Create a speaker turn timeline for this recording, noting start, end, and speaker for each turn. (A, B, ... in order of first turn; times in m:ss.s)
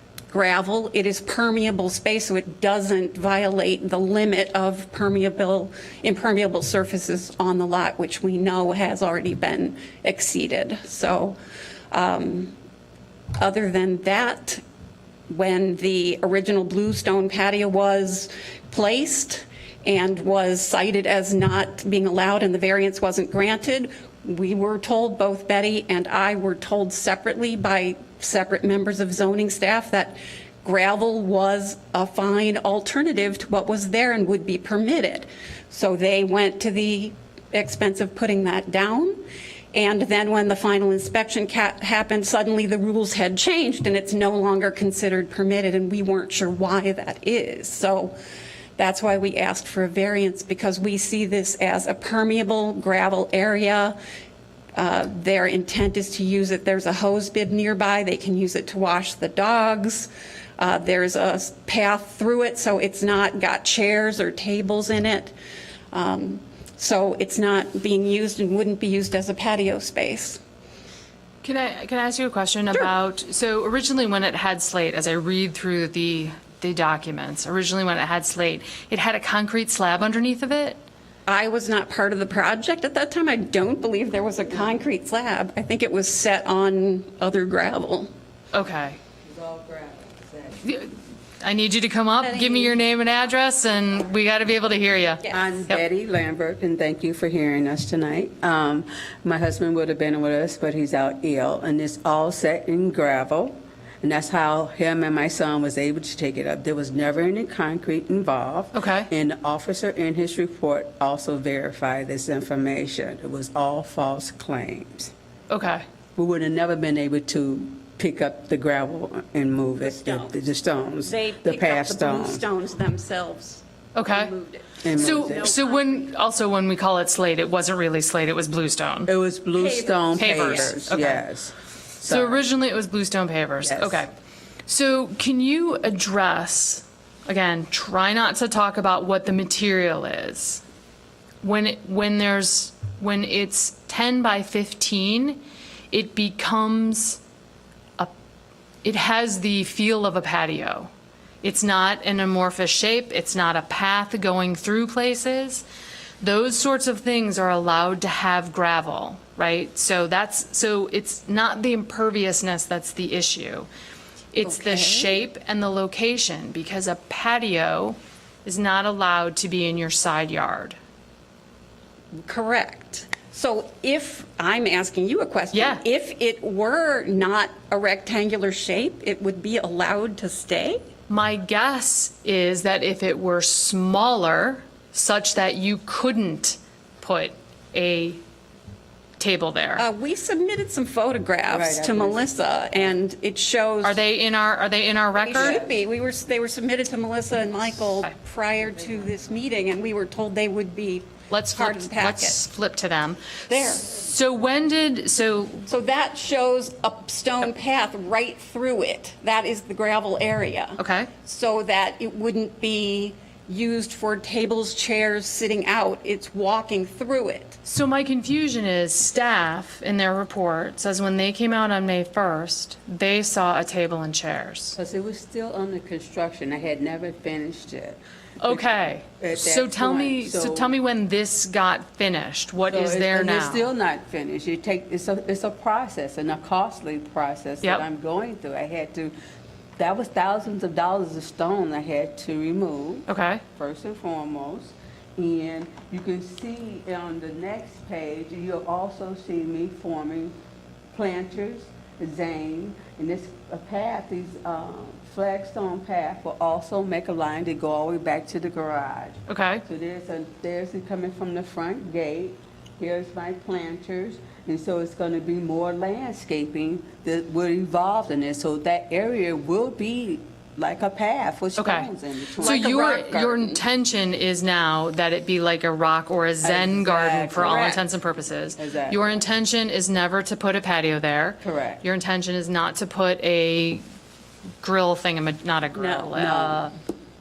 0:00.3-0:11.4 A
0:11.9-0:12.6 A
0:13.4-0:14.6 A
0:15.3-0:39.2 A
0:39.7-0:48.2 A
0:48.8-0:54.0 A
0:54.8-1:05.3 A
1:05.9-1:10.4 A
1:11.4-1:20.8 B
1:21.3-1:28.1 A
1:28.5-1:29.0 B
1:29.2-1:30.7 C
1:30.6-1:35.8 B
1:32.2-1:32.8 A
1:35.2-1:35.5 A
1:35.3-1:55.1 C
1:48.7-1:49.1 B
1:55.5-1:55.8 B
1:56.2-2:02.4 C
1:59.9-2:00.4 A
2:01.0-2:06.1 A
2:04.0-2:04.3 B
2:04.8-2:05.5 C
2:05.0-2:09.1 B
2:09.1-2:12.4 C
2:09.5-2:10.7 A
2:10.2-2:11.2 B
2:12.0-2:14.1 B
2:13.6-2:14.1 C
2:14.7-2:20.6 B
2:21.4-2:27.2 B
2:28.8-2:30.9 B
2:31.4-2:35.6 B
2:36.2-2:43.7 B
2:44.3-2:50.8 B
2:44.4-2:45.1 A
2:52.2-3:00.8 A
2:55.5-2:55.8 B
3:01.1-3:08.2 B
3:09.2-3:09.8 B
3:09.8-3:14.0 A
3:11.5-3:12.3 C
3:13.8-3:15.6 B
3:15.2-3:22.4 A
3:15.3-3:15.7 C
3:21.3-3:25.7 B
3:23.5-3:23.9 A
3:25.7-3:37.6 A
3:30.8-3:31.1 B
3:37.6-3:44.8 B
3:44.8-3:50.7 C
3:48.4-3:53.7 B
3:52.6-3:59.1 C
3:59.8-4:10.3 C
4:03.1-4:03.4 B
4:10.9-4:33.6 C
4:19.3-4:19.6 B
4:31.6-4:31.9 B
4:32.4-4:43.8 B
4:32.4-4:33.1 A
4:36.4-4:37.8 C
4:38.6-4:39.2 C
4:41.4-4:41.8 C
4:44.6-4:46.7 B
4:45.8-4:46.2 A
4:46.1-4:46.7 C